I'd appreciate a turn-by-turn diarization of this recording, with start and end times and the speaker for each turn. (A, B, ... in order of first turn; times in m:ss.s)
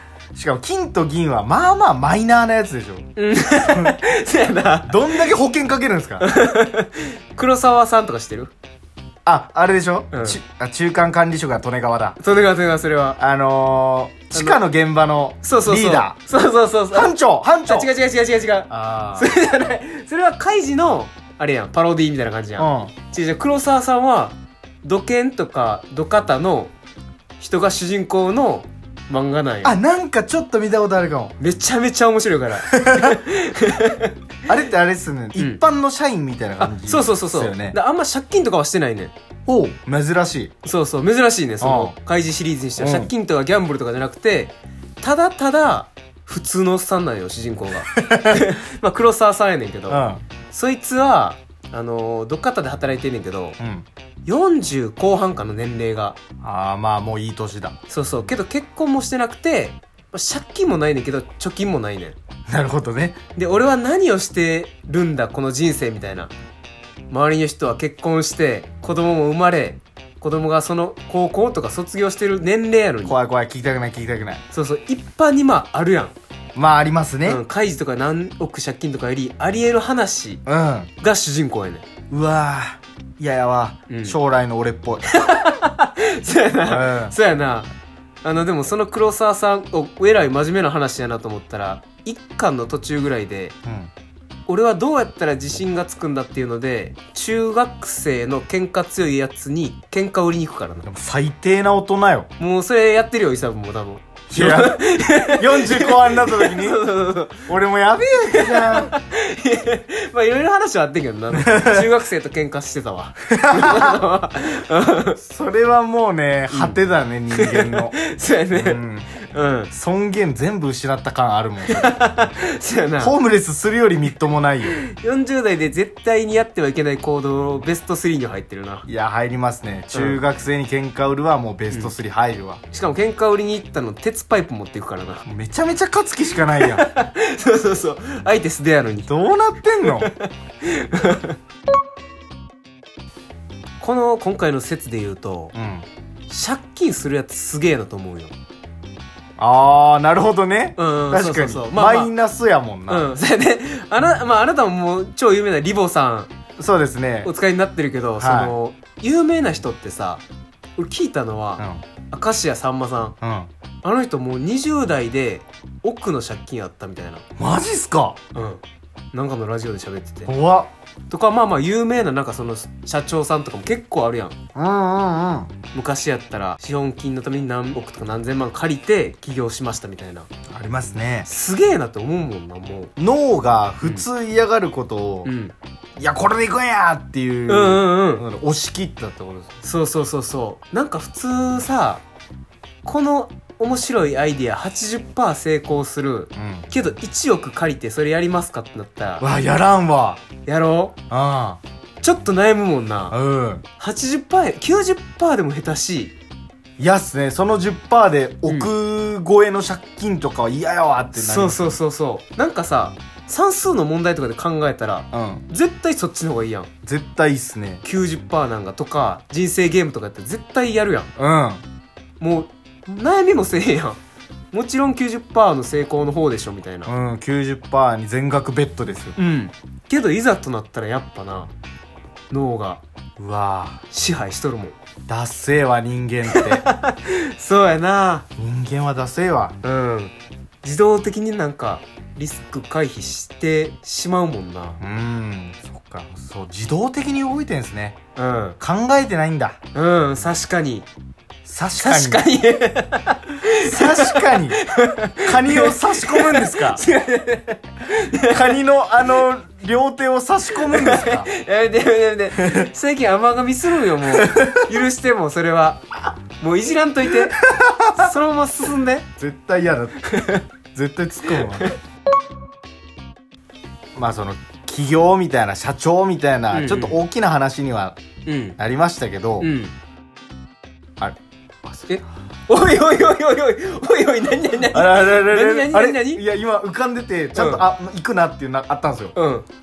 0:00.3-0:03.1 A
0:03.2-0:05.3 B
0:03.7-0:04.0 A
0:04.9-0:06.3 A
0:06.2-0:08.5 B
0:09.2-0:12.2 A
0:10.1-0:10.4 B
0:12.2-0:13.2 B
0:13.2-0:16.2 A
0:14.3-0:14.6 B
0:15.4-0:17.1 B
0:16.9-0:17.9 A
0:17.7-0:26.7 B
0:18.7-0:19.3 A
0:22.6-0:22.9 A
0:27.4-0:29.7 B
0:29.6-0:31.4 A
0:31.4-0:34.1 B
0:32.7-0:33.2 A
0:34.5-0:37.8 A
0:35.4-0:35.6 B
0:36.6-0:39.1 B
0:39.4-0:40.5 A
0:40.6-0:53.6 B
0:41.6-0:41.9 A
0:42.8-0:43.1 A
0:47.9-0:48.5 A
0:49.9-0:50.2 A
0:53.6-0:53.8 A
0:54.2-0:56.2 B
0:56.4-0:57.8 A
0:57.9-1:02.2 B
1:02.5-1:03.2 A
1:03.4-1:06.3 B
1:07.1-1:13.2 B
1:13.0-1:14.4 A
1:14.5-1:16.1 B
1:16.5-1:17.4 A
1:17.2-1:20.4 B
1:20.4-1:20.9 A
1:21.0-1:21.8 B
1:22.1-1:25.1 A
1:23.9-1:24.2 B
1:25.1-1:27.7 B
1:26.6-1:27.2 A
1:28.2-1:33.5 B
1:33.6-1:33.9 A
1:34.5-1:40.9 B
1:40.8-1:42.3 A
1:42.4-1:47.5 B
1:44.3-1:46.9 A
1:47.4-1:48.9 A
1:48.3-1:55.2 B
1:51.3-1:51.9 A
1:53.3-1:54.0 A
1:55.2-1:58.0 A
1:56.5-1:56.8 B
1:57.3-1:59.7 B
1:58.5-1:59.1 A
1:59.7-2:01.9 A
2:01.6-2:03.2 B
2:03.0-2:04.8 A
2:04.8-2:08.8 B
2:08.9-2:12.6 A
2:09.9-2:10.2 B
2:12.7-2:15.2 B
2:15.2-2:16.9 A
2:16.6-2:19.1 B
2:19.1-2:20.1 A
2:19.8-2:21.4 B
2:23.8-2:25.5 B
2:25.5-2:25.8 A
2:26.3-2:28.3 B
2:29.4-2:33.1 A
2:30.8-2:32.1 B
2:32.9-2:36.3 B
2:36.6-2:37.3 A
2:37.2-2:40.2 B
2:38.2-2:38.6 A
2:40.8-2:43.2 B
2:43.2-2:43.5 A
2:43.8-2:47.2 B
2:47.4-2:48.2 A
2:48.3-2:48.6 B
2:49.1-2:50.3 B
2:50.3-2:50.7 A
2:51.1-2:54.3 B
2:54.5-2:55.5 A
2:55.7-3:00.3 B
3:00.5-3:01.3 A
3:01.2-3:02.9 B
3:03.0-3:05.3 A
3:05.2-3:05.5 B
3:06.0-3:09.6 A
3:07.5-3:08.2 B
3:09.6-3:12.0 B
3:12.8-3:19.2 B
3:16.4-3:16.7 A
3:19.2-3:20.2 A
3:20.4-3:21.0 B
3:21.1-3:21.6 A
3:22.0-3:23.2 B
3:23.1-3:23.6 A
3:23.8-3:26.1 B
3:26.8-3:31.8 A
3:28.4-3:28.7 B
3:31.1-3:36.7 B
3:35.1-3:35.4 A
3:36.8-3:37.8 A
3:37.8-3:41.1 B
3:41.2-3:41.6 A
3:42.2-3:44.0 B
3:44.5-3:46.9 B
3:46.8-3:49.2 A
3:49.2-3:51.5 B
3:52.3-3:52.8 B
3:53.2-3:53.8 A
3:53.9-3:54.7 B
3:55.1-3:56.6 A
3:56.3-3:58.2 B
3:58.4-3:59.6 A
3:59.6-4:04.8 B
4:04.8-4:08.0 A
4:08.2-4:08.6 B
4:08.6-4:09.6 A
4:09.7-4:10.9 B
4:11.4-4:12.3 A
4:11.8-4:18.6 B
4:13.6-4:14.6 A
4:15.2-4:16.8 A
4:18.2-4:21.3 A
4:20.7-4:27.4 B
4:22.3-4:22.7 A
4:24.1-4:24.7 A
4:27.4-4:28.1 A
4:27.9-4:29.1 B
4:29.2-4:30.1 A
4:30.1-4:30.4 B
4:30.7-4:31.7 A
4:31.3-4:31.8 B
4:33.9-4:38.0 A
4:36.5-4:37.0 B
4:38.2-4:38.6 B
4:38.6-4:39.5 A
4:39.4-4:39.7 B
4:41.0-4:42.0 A
4:41.9-4:46.2 B
4:44.6-4:49.1 A
4:47.4-4:47.6 B
4:49.1-4:49.4 B